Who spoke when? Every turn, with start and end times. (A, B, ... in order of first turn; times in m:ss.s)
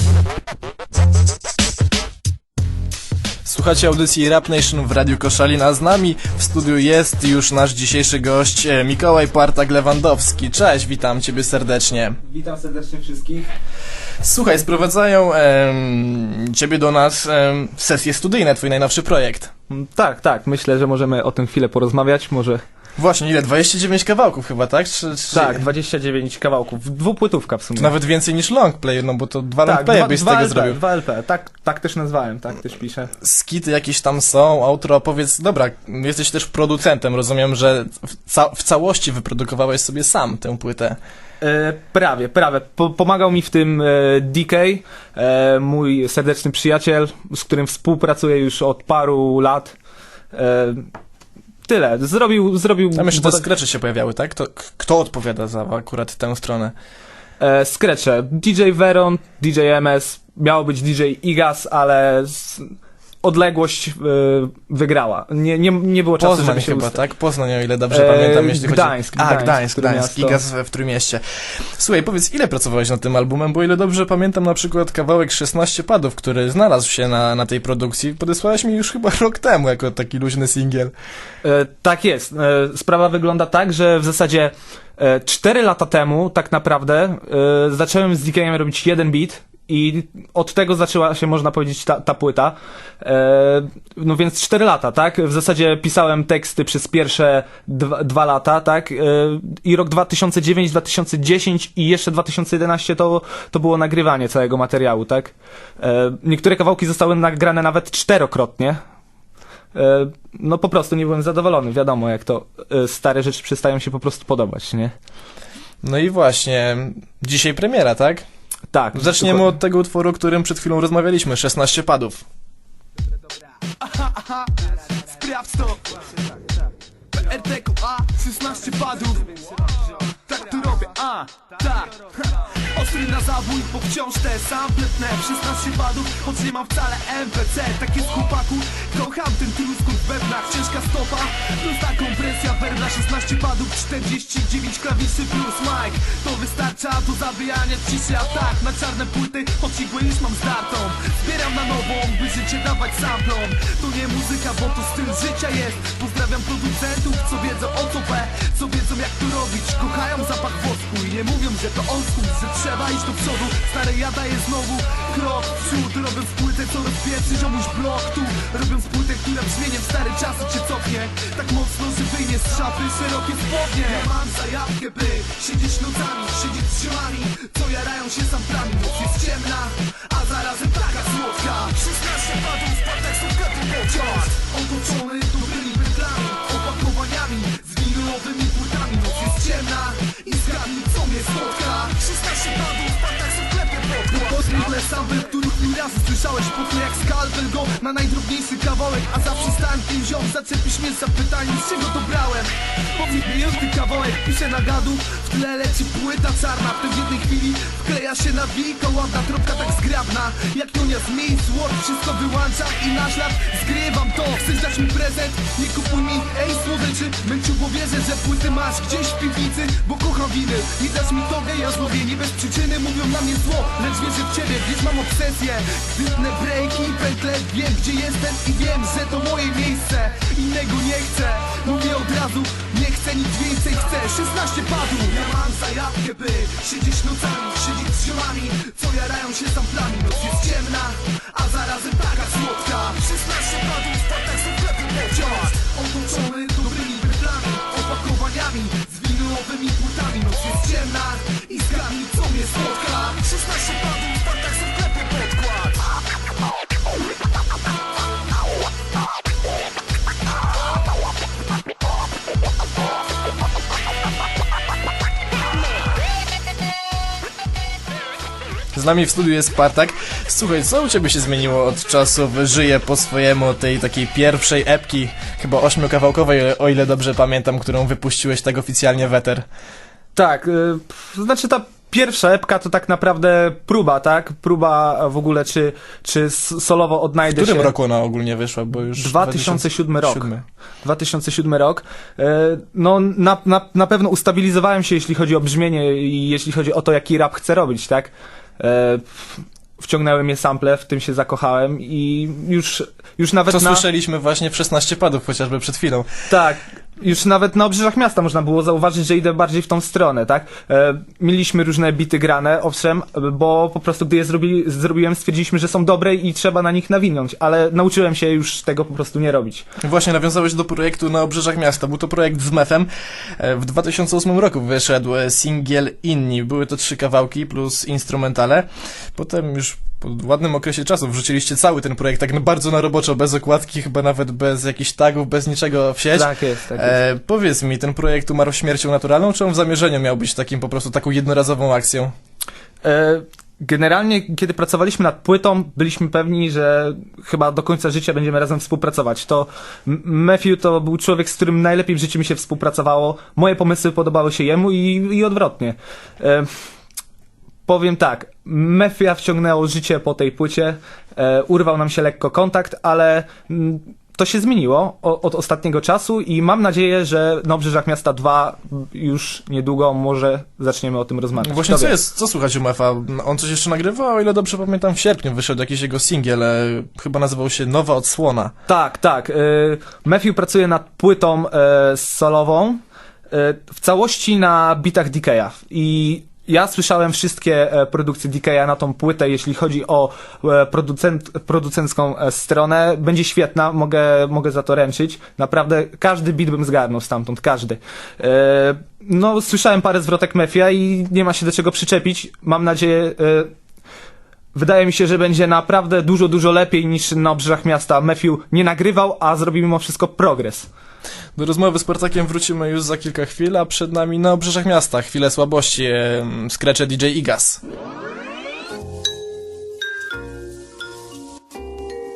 0:03.4-0:12.2 A
0:12.2-0:13.5 B
0:14.2-0:19.5 A
0:19.7-0:22.6 B
0:23.0-0:25.6 A
0:25.3-0:27.9 B
0:27.8-0:30.8 A
0:29.6-0:33.1 B
0:33.2-0:41.0 A
0:41.4-0:49.7 B
0:50.3-0:50.9 B
0:51.6-0:53.4 B
0:52.9-0:56.7 A
0:57.4-1:07.0 B
1:06.2-1:20.9 A
1:07.9-1:10.4 B
1:21.4-1:48.8 B
1:49.7-1:54.9 B
1:55.8-1:58.2 A
1:58.7-1:59.5 B
1:58.9-2:02.2 A
2:03.8-2:05.9 C
2:07.1-2:09.4 C
2:10.3-4:15.8 C
4:28.7-4:39.5 A
4:40.1-4:47.7 B
4:47.2-4:50.4 A
4:48.9-4:50.3 B
4:50.8-5:03.8 B
5:03.5-5:06.1 A
5:06.3-5:19.7 B
5:19.8-5:42.1 A
5:36.1-5:37.0 B
5:42.8-5:56.5 B
5:57.7-6:12.0 B
6:11.4-6:18.5 A
6:18.7-6:43.5 B
6:44.5-6:50.7 B
6:51.4-6:57.6 A